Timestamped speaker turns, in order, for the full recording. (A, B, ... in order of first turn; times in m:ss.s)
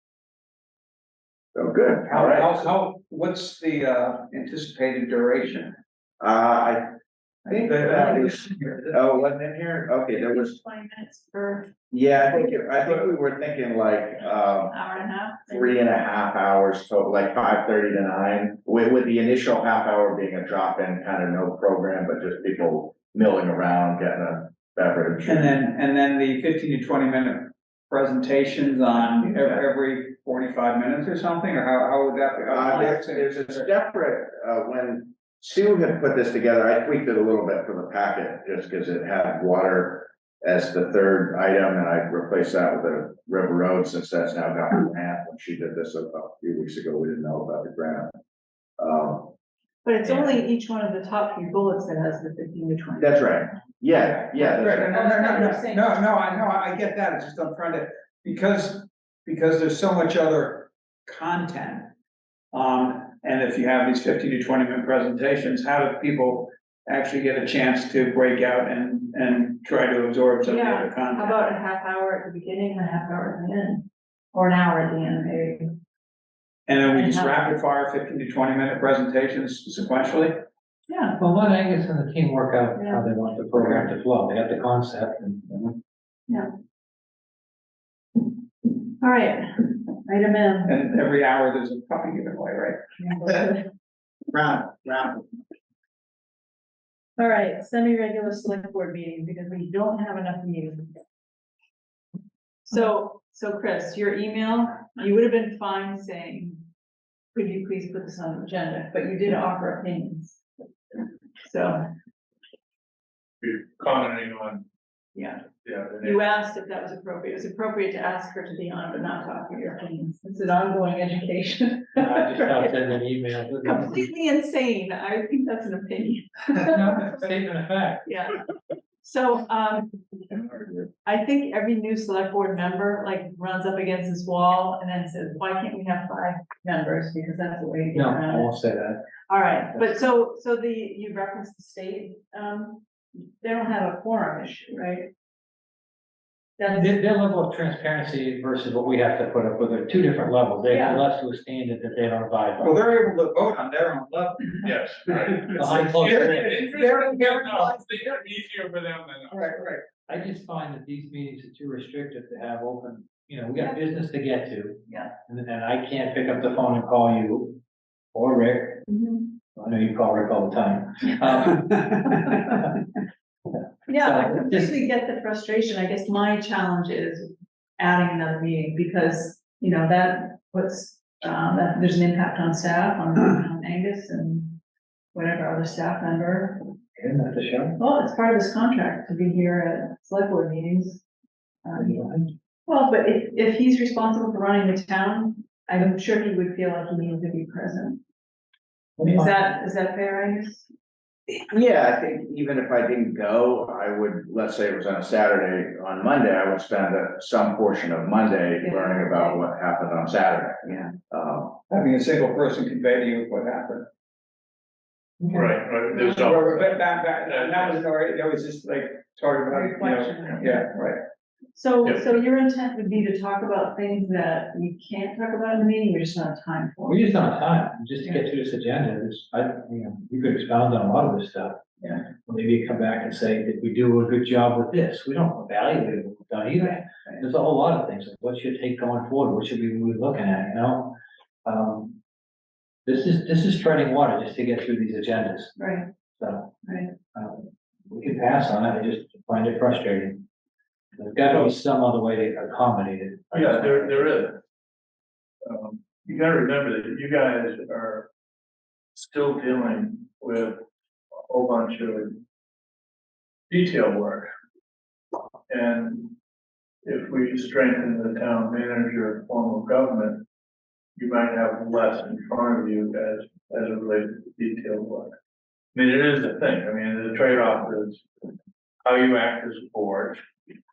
0:01.6-0:02.6 A
0:02.1-0:05.8 B
0:06.2-0:06.9 A
0:07.5-0:08.4 A
0:07.5-0:08.4 C
0:07.6-0:08.9 B
0:08.9-0:09.3 C
0:08.9-0:10.5 A
0:10.1-0:11.7 C
0:11.9-0:14.8 A
0:14.7-0:15.9 C
0:15.5-0:25.5 A
0:25.3-0:33.7 B
0:29.0-0:29.6 A
0:32.5-0:48.1 A
0:48.8-0:49.3 A
0:49.8-0:53.4 C
0:53.0-0:55.0 A
0:54.0-1:01.9 B
0:54.4-0:56.0 C
1:02.5-1:11.4 B
1:10.4-1:15.7 C
1:16.7-1:20.4 B
1:16.9-1:17.5 C
1:20.9-1:21.2 C
1:21.2-1:25.7 D
1:22.8-1:23.0 C
1:23.6-1:23.9 B
1:29.0-1:30.8 C
1:30.7-1:33.0 B
1:33.0-1:33.7 C
1:34.3-1:35.2 A
1:37.2-1:40.9 C
1:42.6-1:46.6 C
1:47.3-1:50.4 C
1:51.4-1:51.8 C
1:53.4-1:54.6 E
1:55.2-1:55.4 C
1:55.6-1:56.2 E
1:56.0-2:02.8 C
2:02.0-2:04.1 D
2:03.6-2:07.2 C
2:06.6-2:08.1 D
2:08.0-2:08.4 C
2:09.0-2:18.5 C
2:17.9-2:19.1 D
2:19.3-2:25.1 C
2:19.7-2:20.0 D
2:26.6-2:26.9 C
2:26.7-2:32.7 D
2:30.7-2:31.0 C
2:32.6-2:34.7 B
2:34.6-2:39.5 E
2:35.5-2:38.2 B
2:35.6-2:36.7 D
2:39.3-2:39.8 B
2:40.1-2:47.6 D
2:48.1-2:48.8 D
2:48.9-2:49.4 C
2:49.6-2:51.9 D
2:51.7-2:52.0 B
2:53.9-3:04.6 C
2:53.9-2:54.7 D
3:05.1-3:06.6 C
3:07.0-3:07.8 D
3:07.8-3:11.0 C
3:11.6-3:12.0 C
3:11.8-3:12.3 D
3:12.7-3:18.0 C
3:19.0-3:19.4 D
3:19.0-3:20.7 C
3:21.5-3:31.6 A
3:28.6-3:29.4 C
3:31.7-3:33.9 B
3:35.2-3:37.9 E
3:36.1-3:41.0 B
3:39.5-3:40.7 C
3:41.6-3:47.3 C
3:46.9-4:02.0 D
4:02.9-4:05.5 D
4:05.6-4:05.9 C
4:06.2-4:06.5 D
4:06.6-4:06.9 C
4:07.1-4:10.2 D
4:11.0-4:14.3 D
4:13.3-4:14.4 E
4:15.4-4:18.1 E
4:19.0-4:20.6 E
4:21.3-4:22.2 E
4:23.5-4:24.3 E
4:25.5-4:26.1 E
4:26.8-4:30.2 E
4:31.0-4:35.2 E
4:35.7-4:38.0 E
4:38.8-4:40.2 E